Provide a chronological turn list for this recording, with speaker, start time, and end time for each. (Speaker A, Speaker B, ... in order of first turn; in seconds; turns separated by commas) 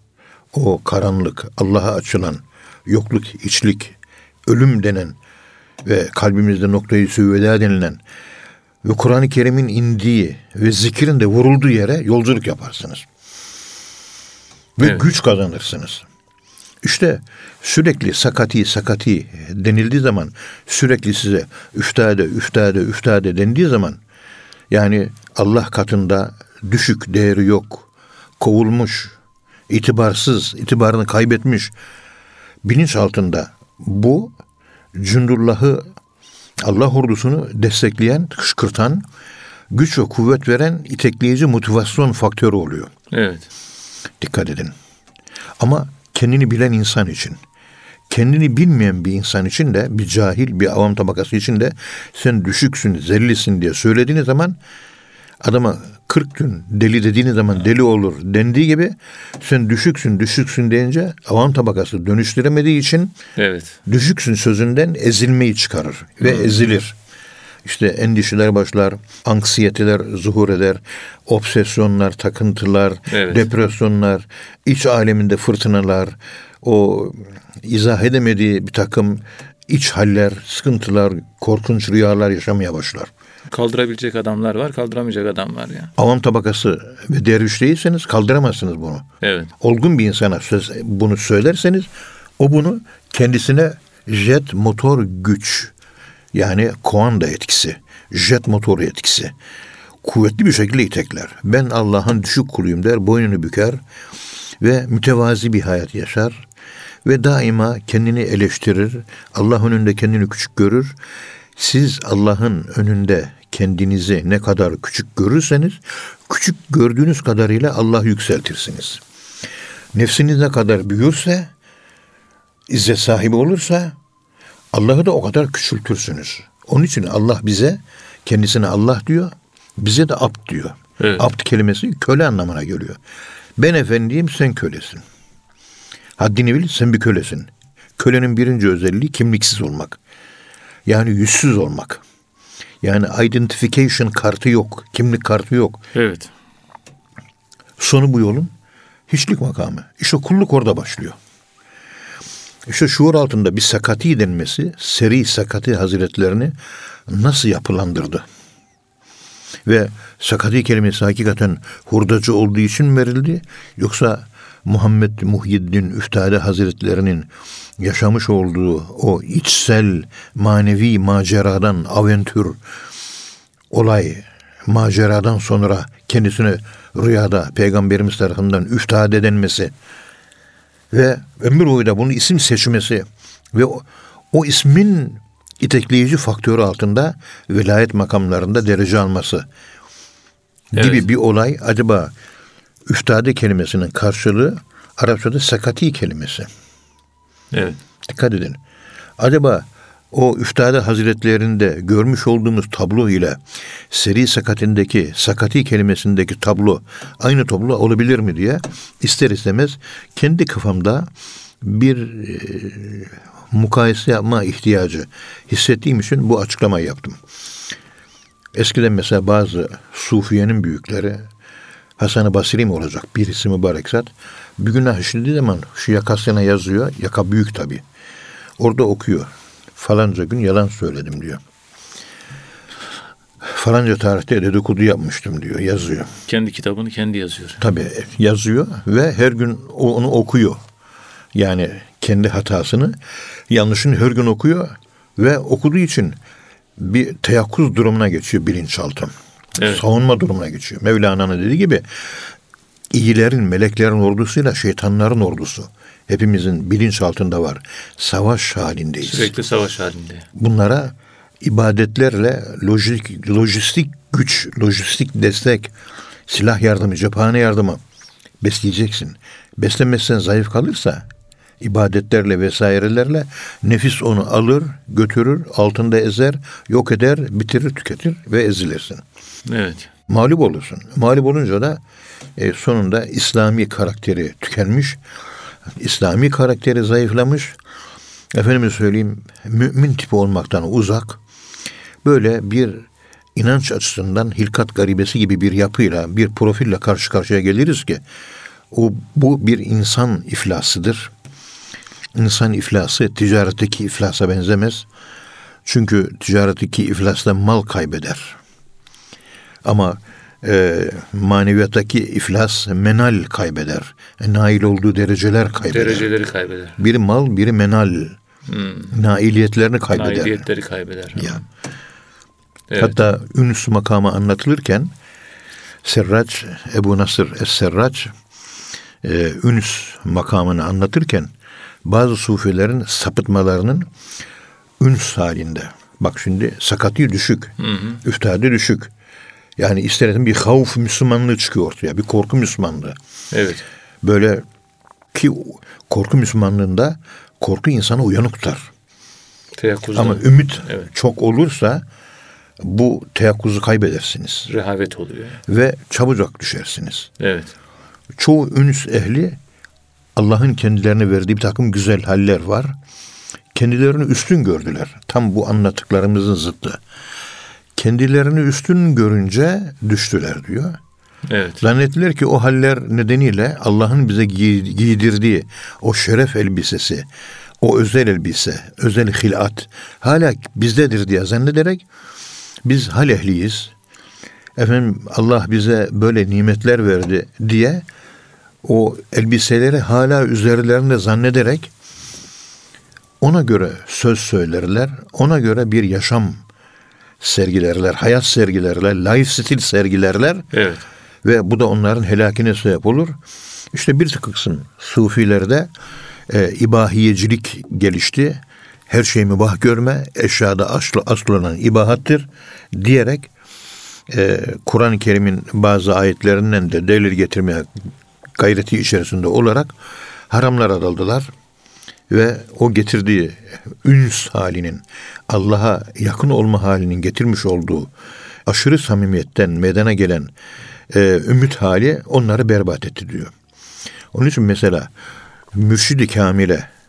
Speaker A: 0.5-5.2, Speaker A: 5.8-8.0, Speaker A: 8.8-13.1, Speaker A: 14.8-16.1, Speaker A: 16.8-24.0, Speaker A: 24.7-27.9, Speaker A: 28.4-29.1, Speaker A: 29.7-31.7, Speaker A: 32.6-34.3, Speaker A: 35.0-35.9, Speaker A: 36.6-39.1, Speaker A: 39.7-42.9, Speaker B: 43.1-43.5, Speaker A: 44.2-44.7, Speaker A: 45.6-47.4, Speaker A: 48.1-54.6, Speaker A: 55.4-63.1, Speaker B: 63.4-63.8, Speaker A: 63.9-67.0, Speaker A: 67.6-83.1, Speaker B: 73.1-73.5, Speaker B: 83.5-85.9, Speaker A: 86.0-89.0, Speaker B: 89.2-89.5, Speaker A: 89.6-95.7, Speaker A: 96.3-99.3, Speaker A: 100.0-103.8, Speaker A: 104.6-106.5, Speaker A: 107.0-111.0, Speaker A: 111.5-119.0, Speaker A: 119.9-121.5, Speaker A: 122.7-123.9, Speaker A: 124.7-133.0, Speaker B: 131.0-131.2, Speaker A: 133.6-135.0, Speaker A: 136.2-140.0, Speaker A: 140.9-142.0, Speaker A: 142.8-145.8, Speaker B: 145.9-146.3, Speaker A: 147.8-148.5, Speaker A: 149.1-151.2, Speaker A: 152.7-156.6, Speaker A: 157.1-158.2, Speaker A: 159.7-172.6, Speaker A: 173.7-179.7, Speaker A: 180.9-189.5, Speaker A: 190.7-192.1, Speaker B: 190.7-191.1, Speaker A: 192.9-196.5, Speaker B: 197.5-197.8, Speaker A: 198.0-198.6, Speaker A: 199.2-217.2, Speaker A: 218.5-221.3, Speaker A: 222.0-227.8, Speaker A: 228.6-231.4, Speaker A: 233.4-236.1, Speaker B: 236.3-237.7, Speaker A: 237.6-240.6, Speaker A: 241.3-243.0, Speaker A: 243.5-246.2, Speaker A: 246.8-252.3, Speaker B: 249.6-249.8, Speaker A: 252.9-259.3, Speaker B: 259.0-260.3, Speaker A: 260.4-265.7, Speaker A: 266.3-267.8, Speaker A: 268.4-271.1, Speaker A: 271.6-279.0, Speaker B: 279.5-279.9, Speaker A: 280.1-281.8, Speaker A: 282.4-285.0, Speaker A: 285.8-287.6, Speaker A: 288.3-291.2, Speaker A: 292.0-298.0, Speaker A: 298.7-301.1, Speaker A: 302.1-304.9, Speaker A: 305.6-308.4, Speaker A: 309.6-316.1, Speaker B: 315.6-316.8, Speaker A: 316.8-318.2, Speaker B: 318.5-318.9, Speaker A: 318.9-320.4, Speaker B: 319.9-321.4, Speaker A: 321.1-321.4, Speaker B: 322.7-323.0, Speaker A: 322.8-324.9, Speaker A: 325.8-328.1, Speaker A: 329.0-331.3, Speaker A: 331.9-333.9, Speaker A: 334.8-338.9, Speaker B: 337.6-338.0, Speaker A: 339.6-343.0, Speaker B: 343.3-343.6, Speaker A: 344.0-344.4, Speaker A: 345.1-348.7, Speaker B: 349.6-350.9, Speaker A: 349.9-351.8, Speaker A: 352.6-354.5, Speaker B: 354.5-355.4, Speaker A: 355.5-357.1, Speaker B: 357.2-357.5, Speaker A: 358.1-359.4, Speaker A: 360.1-362.7, Speaker A: 363.5-366.8, Speaker A: 367.8-370.8, Speaker B: 371.3-371.6, Speaker A: 371.6-377.1, Speaker A: 377.6-381.8, Speaker A: 382.6-383.7, Speaker A: 384.6-387.9, Speaker A: 388.6-391.7, Speaker A: 393.2-396.4, Speaker A: 397.2-400.5, Speaker B: 400.5-400.9, Speaker A: 401.2-403.2, Speaker A: 403.7-405.7, Speaker A: 406.3-413.3, Speaker A: 414.1-417.7, Speaker A: 418.4-419.8, Speaker A: 420.3-421.3, Speaker A: 422.1-427.9, Speaker A: 428.5-430.3, Speaker A: 430.9-433.3, Speaker A: 434.1-434.9, Speaker A: 435.5-436.7